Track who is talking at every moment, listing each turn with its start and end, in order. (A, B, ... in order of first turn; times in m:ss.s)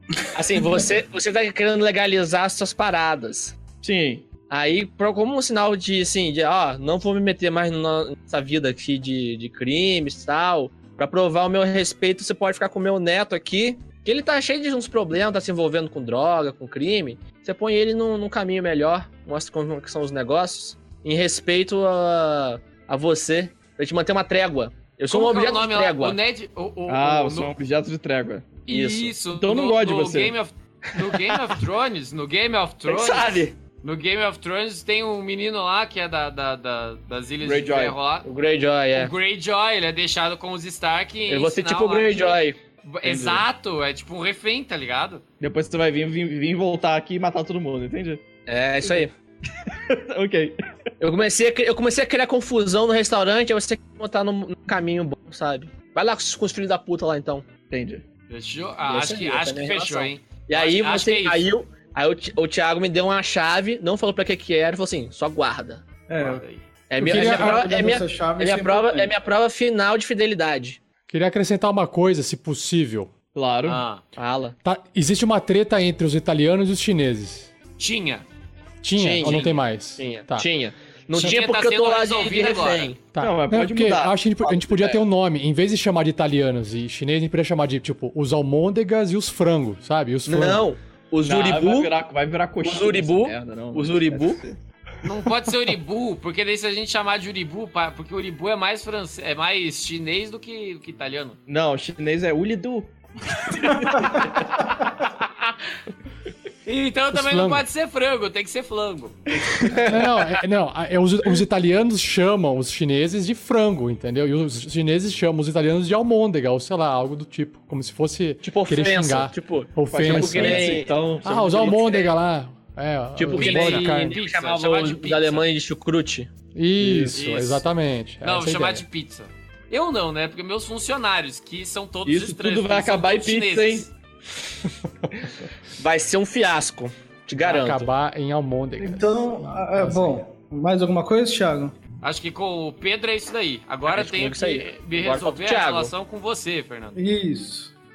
0:00.3-0:03.6 A
0:03.8-0:04.3 B
0:04.5-0:26.2 A
0:25.1-0:27.5 C
0:26.9-0:28.6 B
0:28.7-0:38.3 C
0:28.7-0:29.2 A
0:29.2-0:30.4 B
0:32.9-0:33.5 A
0:37.4-0:38.0 B
0:38.2-0:39.1 A
0:38.9-0:45.2 C
0:41.3-0:43.4 A
0:45.4-0:48.2 B
0:48.5-0:49.1 A
0:49.6-0:50.6 B
0:51.0-0:57.5 A
0:57.7-0:58.0 B
0:58.3-1:01.5 C
0:58.8-1:05.8 A
1:06.1-1:06.4 D
1:06.2-1:06.6 C
1:06.9-1:10.8 A
1:07.0-1:09.1 D
1:07.0-1:07.7 E
1:11.1-1:13.1 E
1:13.3-1:13.8 B
1:13.6-1:14.0 C
1:14.2-1:14.6 A
1:14.6-1:17.5 E
1:17.8-1:18.2 C
1:18.8-1:20.5 E
1:19.0-1:23.0 A
1:19.2-1:19.6 C
1:21.1-1:22.9 C
1:23.1-1:30.6 E
1:23.2-1:25.0 B
1:30.3-1:31.9 A
1:31.2-1:34.6 B
1:32.6-1:34.4 A
1:35.0-1:41.4 C
1:41.5-1:42.9 B
1:43.3-1:44.5 C
1:46.6-1:49.2 C
1:47.1-1:47.6 E
1:49.6-1:50.1 A
1:49.8-2:04.2 E
1:58.4-2:02.1 A
1:59.9-2:01.8 B
2:03.2-2:06.3 A
2:03.3-2:05.4 C
2:06.5-2:08.8 E
2:06.8-2:07.2 B
2:07.1-2:07.6 C
2:08.2-2:13.9 C
2:12.0-2:13.9 B
2:15.8-2:17.9 A
2:17.4-2:20.2 E
2:18.8-2:21.7 D
2:22.0-2:27.0 C
2:23.9-2:25.9 A
2:26.9-2:27.7 D